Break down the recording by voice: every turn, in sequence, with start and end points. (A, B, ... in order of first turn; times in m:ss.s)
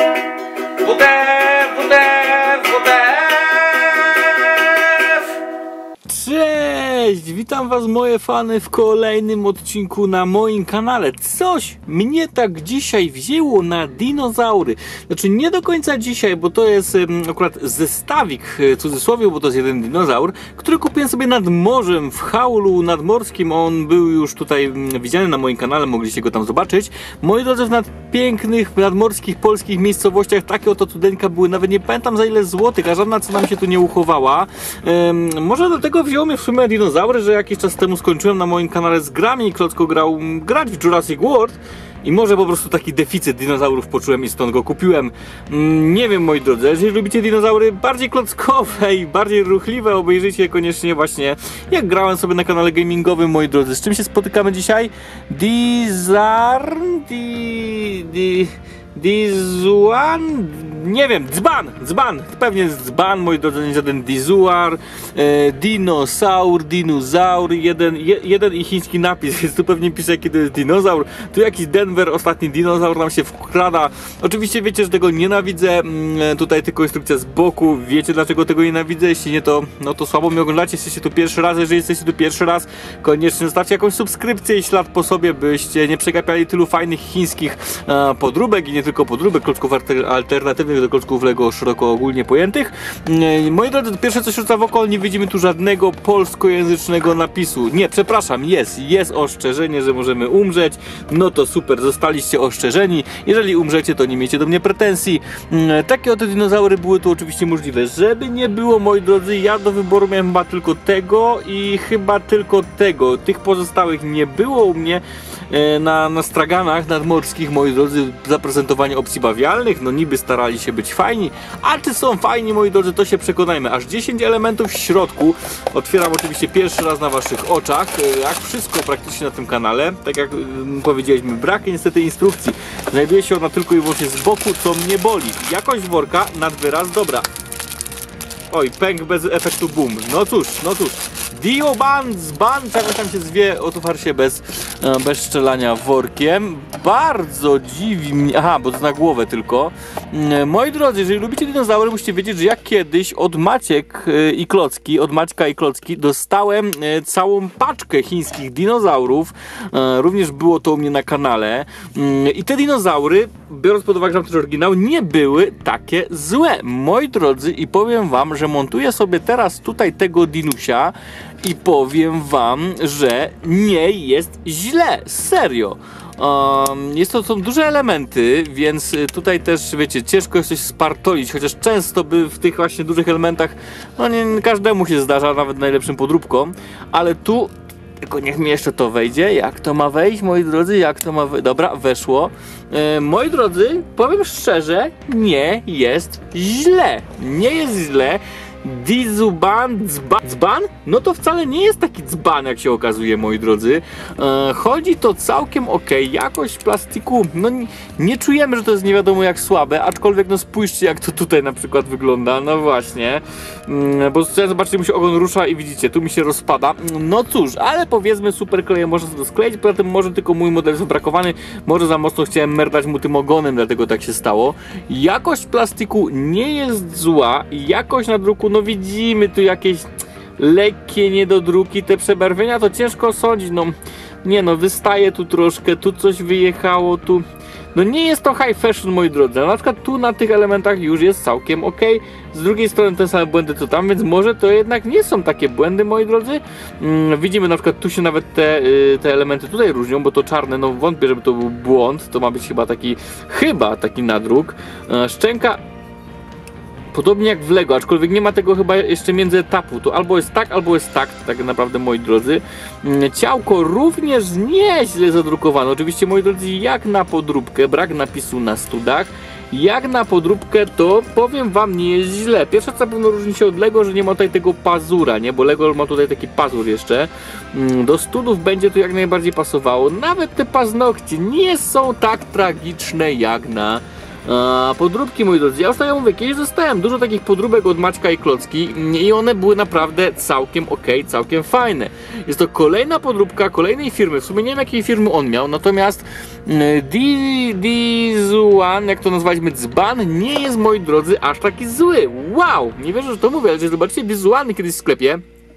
0:00.8-0:05.3 A
0:06.1-2:17.3 A
2:18.5-4:15.6 A
4:16.9-5:05.2 A